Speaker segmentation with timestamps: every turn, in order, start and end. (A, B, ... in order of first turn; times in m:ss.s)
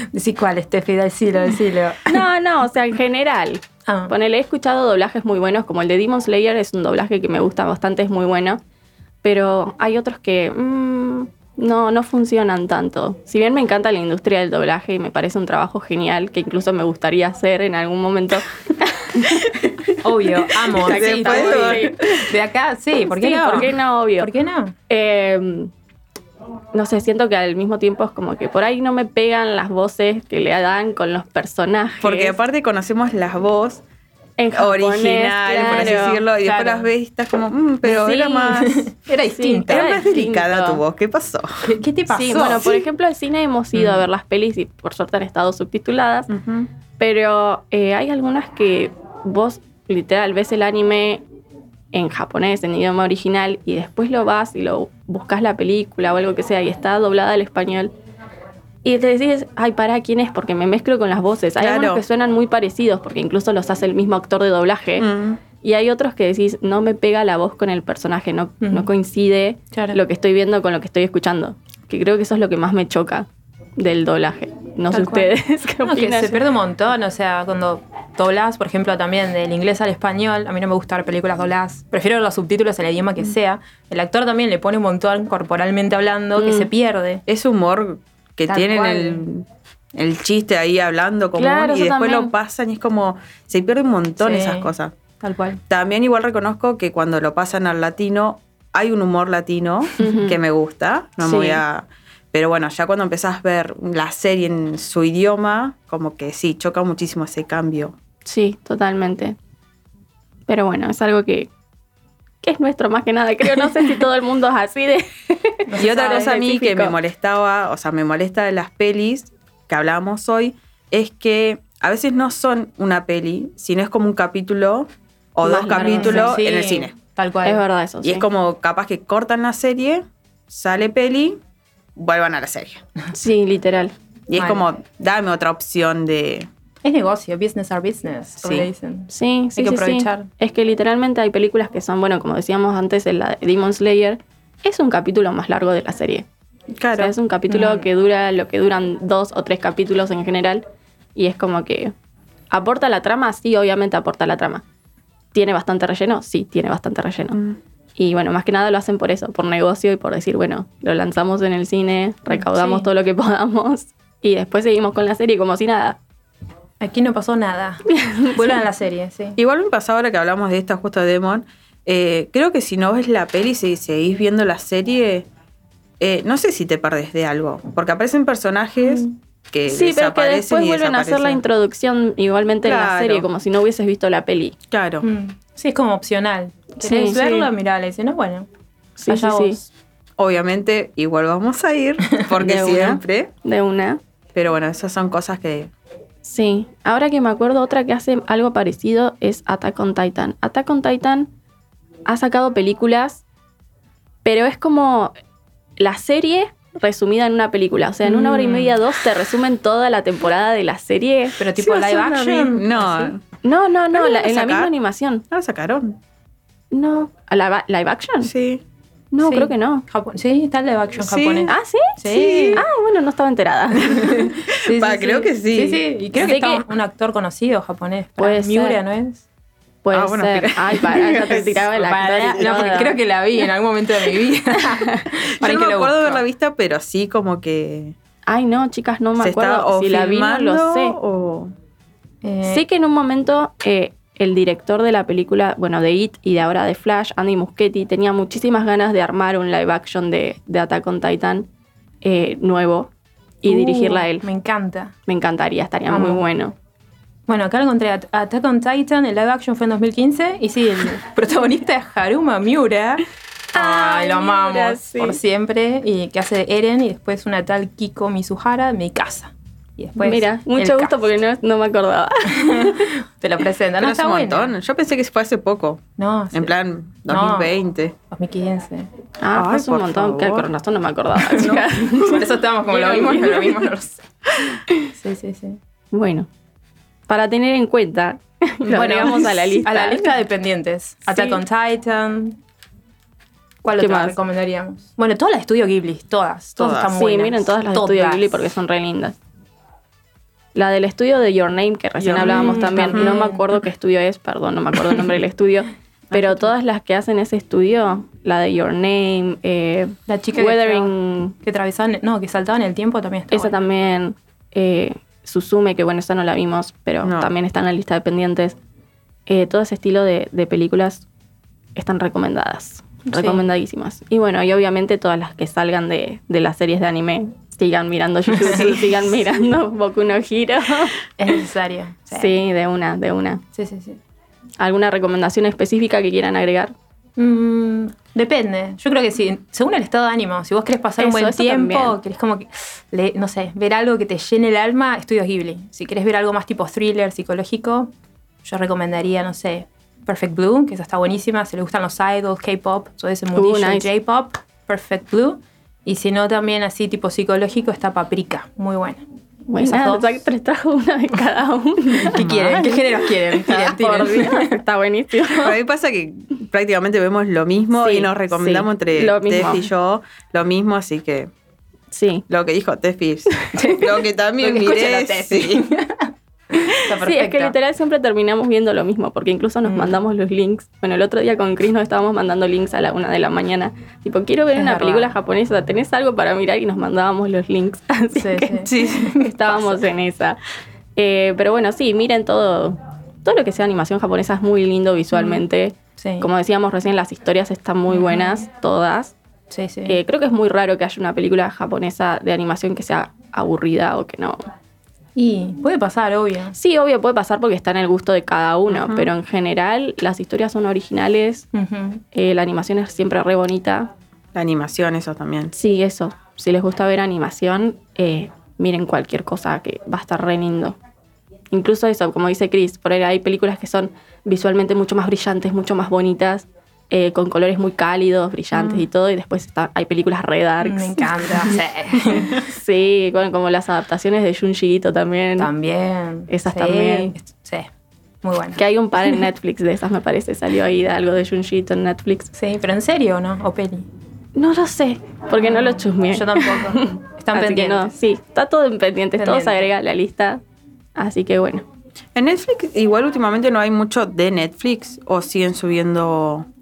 0:00.1-0:02.2 A
0:02.0-0:08.6 B
0:03.8-0:04.1 A
0:09.2-0:19.3 B
0:20.0-0:24.7 A
0:20.7-0:22.0 B
0:20.8-0:22.3 C
0:23.0-0:24.3 B
0:24.9-0:25.7 B
0:26.7-0:32.3 B
0:32.0-0:33.8 C
0:34.4-0:36.2 B
0:34.5-0:38.8 C
0:35.8-0:36.9 A
0:37.8-0:38.8 B
0:38.6-0:39.8 A
0:39.3-0:40.8 B
0:39.6-0:42.7 C
0:41.6-0:42.8 A
0:42.1-0:46.3 B
0:46.3-0:46.7 C
0:47.0-0:51.2 B
0:51.9-0:57.9 B
0:58.8-1:05.1 B
1:01.6-1:02.0 C
1:05.0-1:05.4 C
1:05.6-1:13.3 B
1:08.6-1:08.9 A
1:09.7-1:10.0 A
1:13.8-1:16.4 B
1:14.9-1:27.2 A
1:27.3-1:34.9 C
1:28.5-1:29.2 A
1:31.3-1:32.3 B
1:34.2-1:35.6 A
1:35.7-1:47.9 C
1:40.0-1:40.4 B
1:41.2-1:41.6 B
1:48.2-1:49.4 B
1:50.5-1:51.5 B
1:52.4-1:57.0 B
1:55.7-1:56.3 A
1:55.7-2:07.0 C
2:05.4-2:06.4 B
2:05.8-2:07.6 A
2:07.4-2:08.3 B
2:08.0-2:11.4 C
2:12.0-2:12.8 C
2:13.1-2:13.9 B
2:14.3-2:16.5 C
2:14.4-2:14.6 A
2:16.8-2:20.3 A
2:18.4-2:18.7 C
2:19.1-2:26.2 B
2:26.7-2:27.2 C
2:27.0-2:30.6 B
2:27.5-2:27.9 A
2:31.1-2:31.9 B
2:32.5-2:34.6 B
2:35.3-2:37.4 B
2:38.0-2:46.0 B
2:42.3-2:42.9 A
2:46.8-2:49.4 A
2:47.9-2:48.6 B
2:49.4-2:55.3 C
2:56.0-3:01.4 C
2:59.7-3:04.6 B
3:02.6-3:03.3 C
3:04.7-3:05.0 C
3:05.0-3:08.5 A
3:06.7-3:07.5 B
3:09.0-3:09.6 B
3:09.1-3:09.6 A
3:10.2-3:13.3 C
3:12.4-3:14.0 B
3:14.3-3:15.7 C
3:16.2-3:21.3 B
3:22.0-3:23.2 B
3:24.2-3:25.1 B
3:25.8-3:31.4 B
3:28.0-3:28.7 A
3:31.4-3:33.1 A
3:31.6-3:33.2 C
3:33.4-3:35.2 B
3:33.9-3:34.7 C
3:35.3-3:36.0 C
3:36.7-3:38.3 B
3:38.2-3:38.6 C
3:39.1-3:39.8 B
3:39.2-3:42.6 A
3:41.0-3:41.5 C
3:41.5-3:44.1 B
3:42.1-3:42.6 C
3:43.9-3:49.2 A
3:43.9-3:45.8 C
3:46.1-3:46.6 B
3:48.2-3:48.8 B
3:49.8-3:53.0 B
3:49.9-3:52.9 C
3:51.8-3:56.2 A
3:54.7-3:55.0 B
3:55.2-3:57.9 C
3:58.2-4:01.0 B
3:59.2-4:01.5 C
4:02.2-4:02.6 A
4:02.4-4:11.5 B
4:12.0-4:12.9 B
4:13.4-4:14.2 B
4:13.4-4:14.9 A
4:15.1-4:16.6 B
4:15.9-4:16.2 A
4:17.3-4:23.0 A
4:23.5-4:25.2 B
4:23.5-4:31.1 A
4:30.0-4:32.9 B
4:32.3-4:34.5 A
4:33.8-4:37.9 C
4:36.0-4:36.5 A
4:37.1-4:37.5 A
4:38.1-4:38.9 A
4:39.2-4:43.7 B
4:39.3-4:40.5 C
4:41.3-4:44.0 A
4:41.4-4:42.2 C
4:45.0-4:45.6 A
4:45.9-4:46.3 B
4:47.1-4:50.2 B
4:48.6-4:52.4 A
4:51.1-4:51.4 B
4:53.6-4:58.4 A
4:53.7-4:54.2 B
4:56.6-4:57.0 C
4:56.8-4:59.2 B
5:00.5-5:11.3 B
5:02.0-5:03.2 C
5:02.2-5:03.5 A
5:06.1-5:06.5 C
5:10.1-5:13.5 A
5:13.3-5:18.6 B
5:17.0-5:17.3 C
5:19.3-5:21.0 B
5:21.7-5:31.0 B
5:23.1-5:23.4 A
5:28.4-5:28.8 A
5:31.2-5:32.4 A
5:32.1-5:33.4 B
5:33.5-5:34.0 A
5:34.6-5:36.7 B
5:37.2-5:47.9 A
5:41.0-5:42.0 B
5:48.4-5:59.0 A
5:53.3-5:53.9 B
5:59.5-6:02.2 B
5:59.6-6:00.2 A
6:01.9-6:04.6 A
6:02.1-6:02.7 C
6:03.5-6:05.6 B
6:05.3-6:11.3 C
6:07.7-6:09.7 B
6:11.9-6:12.2 B
6:12.3-6:15.7 C
6:13.5-6:16.1 A
6:16.8-6:17.5 A
6:16.9-6:30.4 B
6:19.6-6:19.9 A
6:24.5-6:25.1 A
6:28.2-6:29.8 A
6:28.6-6:29.1 C
6:31.0-6:39.1 B
6:35.1-6:35.4 A
6:36.0-6:36.3 A
6:37.9-6:38.4 A
6:39.5-6:40.0 A
6:39.8-6:44.4 B
6:45.2-6:46.6 A
6:46.5-6:51.4 B
6:48.7-6:49.1 C
6:51.5-6:52.0 A
6:52.1-6:53.9 B
6:54.3-6:55.5 C
6:55.5-7:00.8 B
7:01.5-7:11.5 B
7:08.5-7:08.9 C
7:10.6-7:12.3 A
7:12.3-7:15.5 B
7:15.4-7:17.7 A
7:16.3-7:17.1 B
7:18.2-7:19.3 A
7:18.6-7:22.3 B
7:22.3-7:23.9 A
7:24.4-7:30.4 B
7:25.4-7:27.9 A
7:29.2-7:29.6 A
7:31.0-7:31.6 B
7:32.1-7:36.5 C